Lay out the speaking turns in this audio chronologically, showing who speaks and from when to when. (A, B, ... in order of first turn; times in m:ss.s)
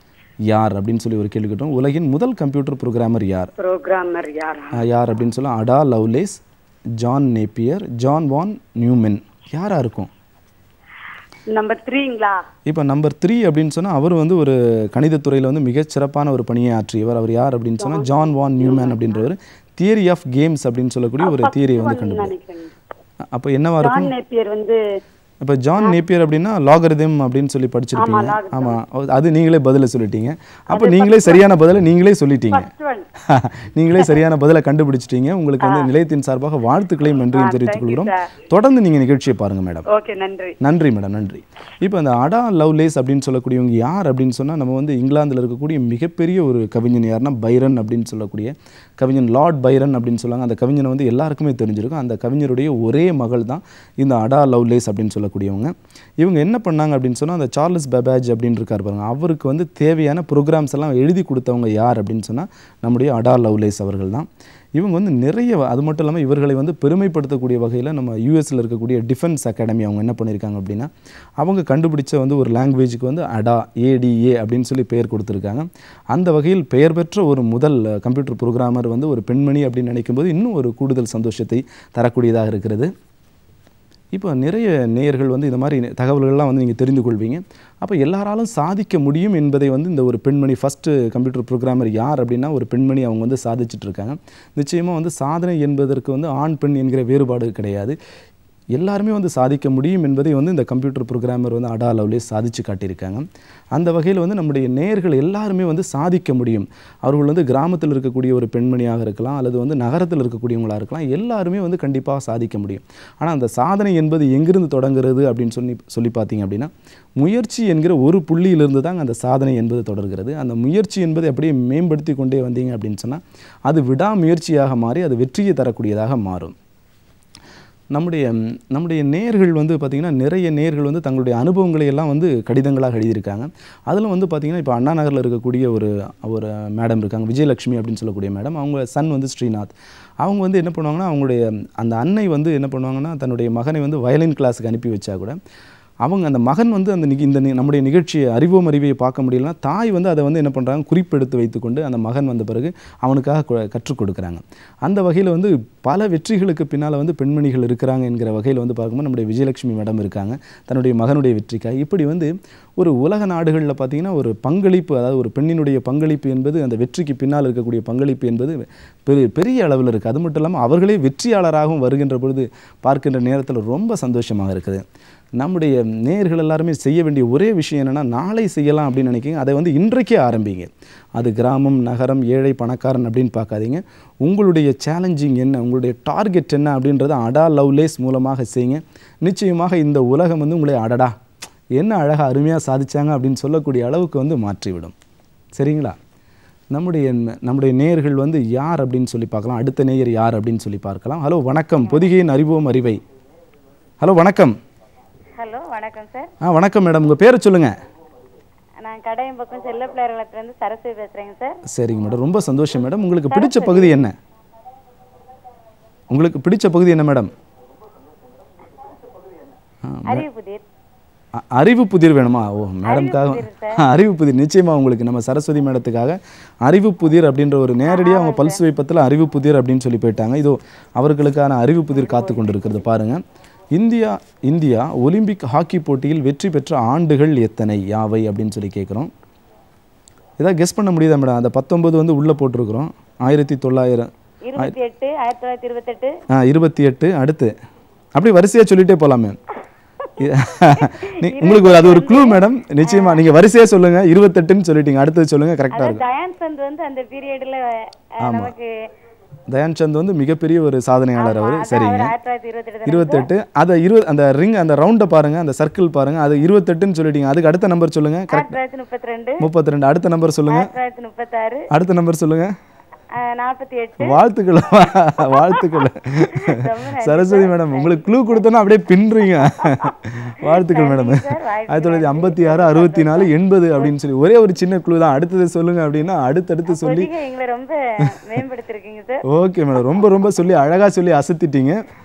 0:00.5-0:03.5 A
0:03.6-0:04.8 B
0:04.7-0:06.4 A
0:07.0-0:10.1 A
0:11.5-0:12.4 B
0:12.7-0:22.4 A
0:17.8-0:19.0 B
0:21.2-0:22.7 B
0:23.3-0:24.1 A
0:23.8-0:24.8 B
0:25.4-0:32.7 A
0:28.0-0:28.8 B
0:30.7-0:31.4 B
0:32.5-0:33.1 B
0:33.2-0:39.8 A
0:35.6-0:35.9 B
0:37.3-0:38.3 B
0:39.9-0:40.6 B
0:40.6-1:22.9 A
1:24.1-1:38.0 A
1:38.8-2:06.5 A
2:07.9-2:25.4 A
2:26.0-2:54.8 A
2:55.4-3:11.2 A
3:11.8-3:14.9 A
3:15.6-3:16.0 A
3:16.7-3:23.0 A
3:24.0-3:24.6 A
3:25.4-3:26.3 C
3:26.4-3:27.7 A
3:28.8-3:31.6 C
3:31.7-3:34.1 A
3:33.3-3:34.0 C
3:36.1-3:37.3 A
3:39.8-3:40.2 A
3:40.0-3:40.6 C
3:41.4-3:53.2 A
3:42.8-3:43.8 C
3:47.8-3:48.6 C
3:52.0-3:52.6 C
3:53.7-3:59.1 A
4:00.4-4:04.8 A
4:04.5-4:06.1 C
4:06.3-4:07.5 A
4:08.2-4:09.4 A
4:10.2-4:16.0 A
4:10.7-4:13.2 C
4:15.7-4:18.7 C
4:18.2-4:18.5 A
4:19.5-4:22.1 A
4:21.2-4:23.3 C
4:22.9-4:28.6 A
4:28.3-4:29.5 C
4:29.4-4:30.7 A
4:30.5-4:31.7 C
4:31.7-4:32.5 A
4:33.2-4:34.2 C
4:34.0-4:47.1 A
4:35.3-4:38.3 C
4:40.4-4:43.9 C
4:46.7-4:49.2 C
4:49.3-4:51.8 A